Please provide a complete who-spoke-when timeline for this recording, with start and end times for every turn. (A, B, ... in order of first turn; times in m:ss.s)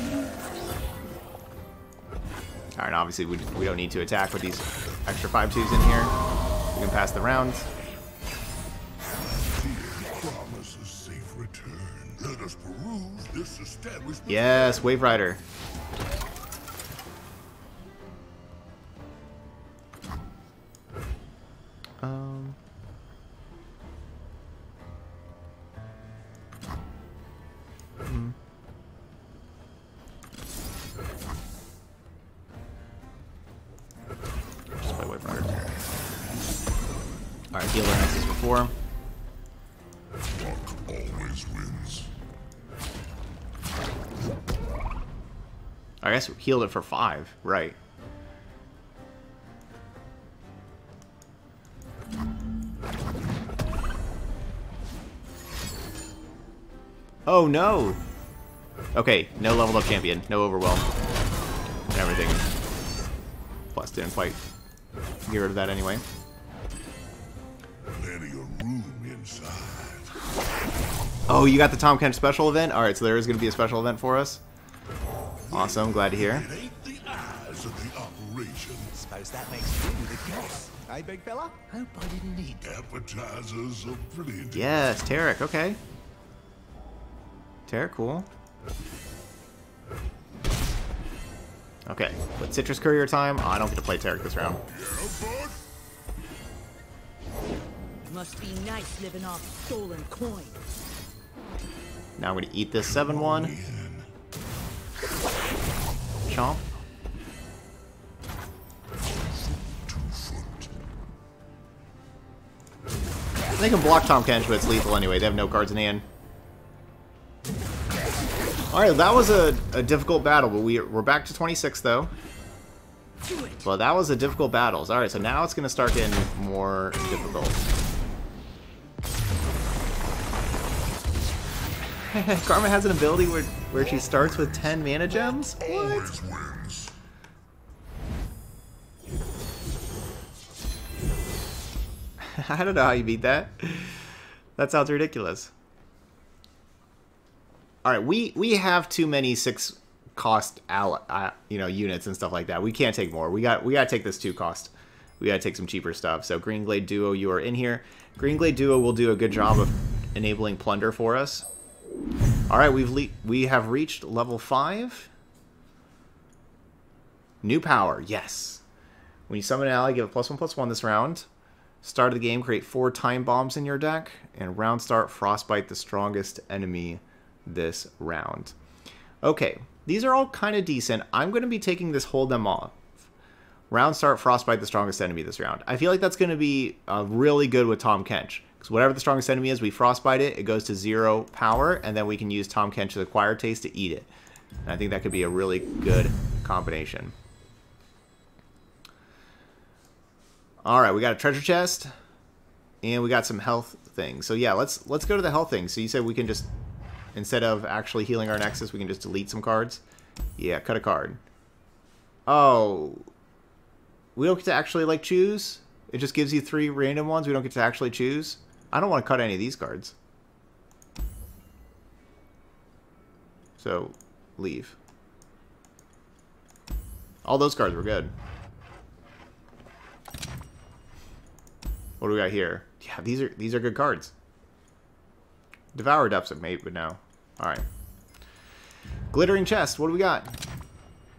0:02.8-0:06.2 A
0:06.7-0:07.6 A
0:09.2-0:15.0 B
0:14.3-0:15.4 A
0:22.0-0:22.6 A
0:28.0-0:28.4 A
0:34.8-0:35.6 A
0:35.4-0:37.1 B
0:37.5-0:38.7 A
0:40.3-0:42.1 B
0:46.0-0:47.8 A
0:57.2-0:58.0 A
0:58.9-1:00.9 A
1:01.9-1:02.5 A
1:03.7-1:04.4 A
1:05.2-1:06.0 A
1:07.9-1:10.1 B
1:11.3-1:14.4 A
1:15.4-1:19.0 B
1:15.5-1:16.4 A
1:18.9-1:22.6 C
1:22.6-1:24.9 B
1:24.5-1:25.8 A
1:27.7-1:28.3 A
1:31.9-1:34.6 A
1:34.7-1:35.6 B
1:38.1-1:40.5 D
1:42.2-1:43.5 A
1:42.7-1:44.1 B
1:46.3-1:46.7 A
1:49.0-1:50.7 B
1:53.6-1:56.0 A
1:58.7-2:02.1 A
2:03.2-2:03.6 D
2:03.6-2:07.6 A
2:07.1-2:07.4 B
2:11.9-2:16.1 A
2:13.7-2:16.9 B
2:22.2-2:24.0 A
2:24.6-2:25.5 A
2:27.8-2:41.4 A
2:42.5-2:45.1 A
2:47.4-2:48.6 A
2:49.3-2:51.3 A
2:51.8-2:58.5 A
2:59.2-3:02.8 A
3:03.7-3:14.1 A
3:14.6-3:17.1 A
3:20.6-3:21.9 A
3:22.8-3:26.5 A
3:27.1-3:29.8 A
3:30.4-3:31.2 A
3:32.3-3:33.1 A
3:34.2-3:39.9 A
3:43.6-3:44.7 A
3:47.2-3:48.1 A
3:52.0-3:54.1 A
3:55.7-3:57.6 A
3:59.1-4:00.4 A